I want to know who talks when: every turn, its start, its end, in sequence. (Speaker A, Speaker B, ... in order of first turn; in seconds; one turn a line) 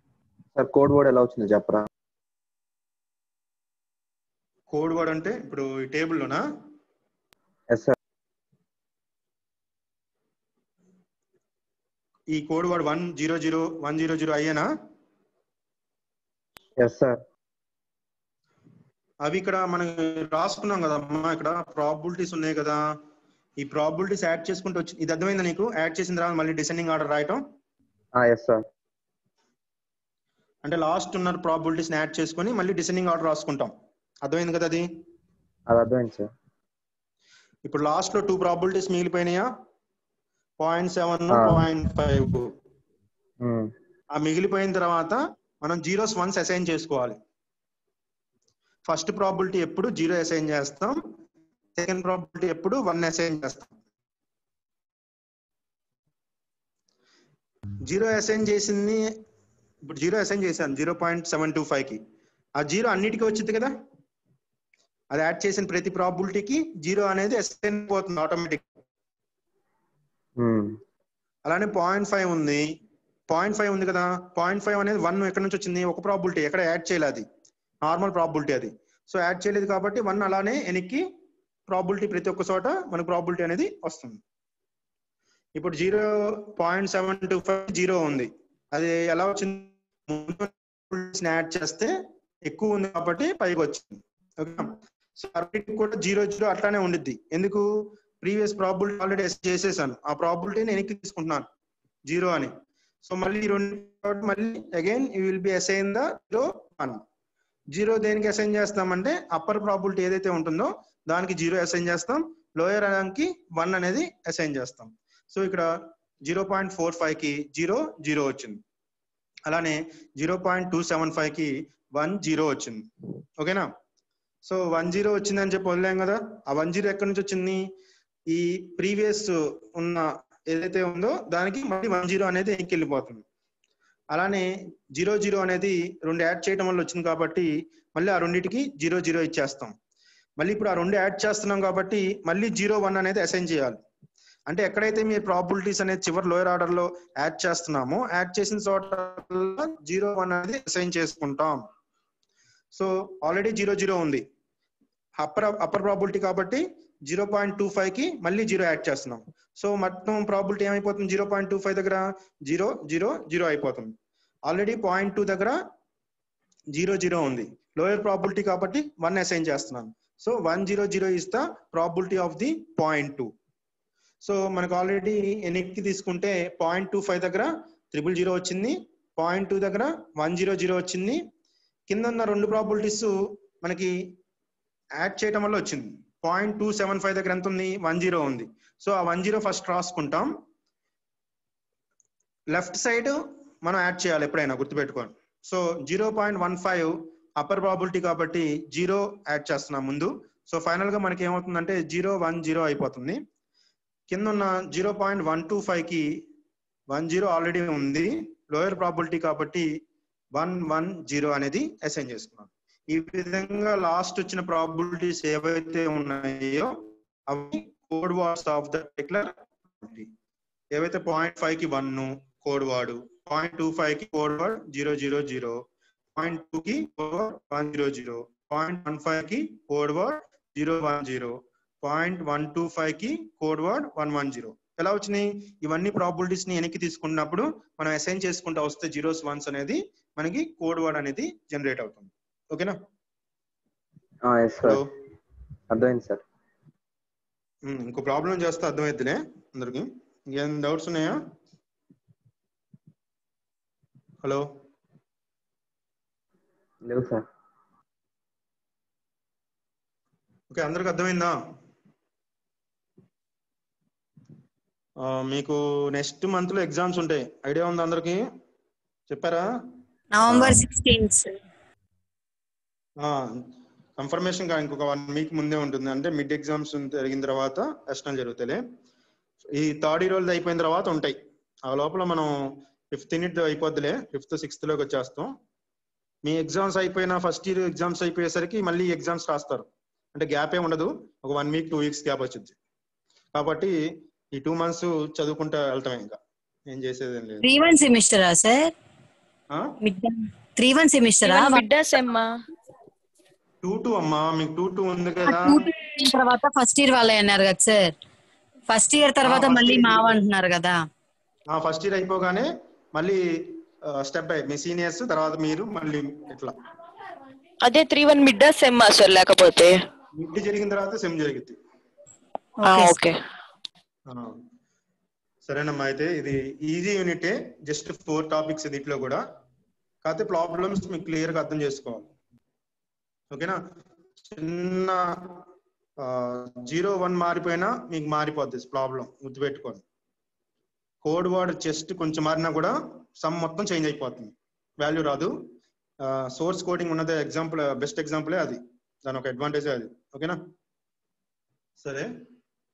Speaker A: 0.6-1.9
Speaker B: 4.7-6.4
Speaker A: 7.7-8.0
Speaker B: 12.3-14.7
Speaker A: 16.8-17.2
Speaker B: 19.2-22.8
Speaker B: 23.6-27.4
Speaker A: 28.2-28.7
Speaker B: 30.6-33.7
Speaker B: 34.2-34.9
Speaker A: 35.7-36.3
Speaker B: 37.6-39.5
Speaker B: 40.6-42.5
Speaker A: 41.3-41.6
Speaker A: 43.4-43.7
Speaker B: 44.1-47.2
Speaker B: 48.9-51.0
Speaker B: 51.8-53.7
Speaker B: 57.8-59.1
Speaker B: 59.8-62.0
Speaker B: 62.6-63.7
Speaker B: 65.1-68.7
Speaker A: 70.4-70.8
Speaker B: 71.5-72.7
Speaker B: 73.3-77.2
Speaker B: 77.8-81.0
Speaker B: 81.7-84.2
Speaker B: 85.6-91.9
Speaker B: 92.5-101.5
Speaker B: 102.1-102.5
Speaker B: 103.0-107.0
Speaker B: 107.7-115.7
Speaker B: 116.2-118.6
Speaker B: 119.5-122.9
Speaker B: 123.4-123.7
Speaker B: 124.4-127.7
Speaker B: 128.3-133.2
Speaker B: 134.1-139.7
Speaker B: 140.4-143.8
Speaker B: 144.5-151.6
Speaker B: 152.7-154.2
Speaker B: 155.2-163.9
Speaker B: 164.5-165.6
Speaker B: 166.7-173.3
Speaker B: 174.2-181.2
Speaker B: 181.9-184.0
Speaker B: 185.0-190.3
Speaker B: 192.5-203.2
Speaker B: 204.1-206.1
Speaker B: 206.9-209.7
Speaker B: 210.3-216.8
Speaker B: 217.3-220.1
Speaker B: 220.7-225.6
Speaker B: 226.2-242.8
Speaker A: 244.2-244.8
Speaker A: 245.7-246.2
Speaker B: 247.7-251.2
Speaker A: 256.8-257.2
Speaker B: 260.5-261.4
Speaker B: 265.0-268.2
Speaker B: 269.1-269.5
Speaker C: 270.1-271.3
Speaker B: 270.3-270.6
Speaker B: 273.0-278.6
Speaker B: 279.6-282.3
Speaker B: 282.9-285.3
Speaker B: 286.2-292.6
Speaker B: 293.3-293.7
Speaker B: 294.3-296.2
Speaker B: 296.7-297.5
Speaker C: 297.4-298.7
Speaker C: 299.8-301.6
Speaker D: 301.2-302.3
Speaker B: 303.6-305.7
Speaker C: 305.3-307.9
Speaker C: 308.7-310.8
Speaker B: 309.2-310.2
Speaker B: 311.5-316.5
Speaker D: 317.6-319.8
Speaker B: 320.1-321.6
Speaker C: 322.6-323.0
Speaker D: 322.6-323.2
Speaker B: 324.1-324.4
Speaker B: 325.4-329.2
Speaker B: 330.0-332.1
Speaker B: 333.3-333.6
Speaker B: 334.2-335.4
Speaker B: 336.0-339.8
Speaker B: 341.0-345.4
Speaker B: 346.0-350.4
Speaker B: 351.8-352.1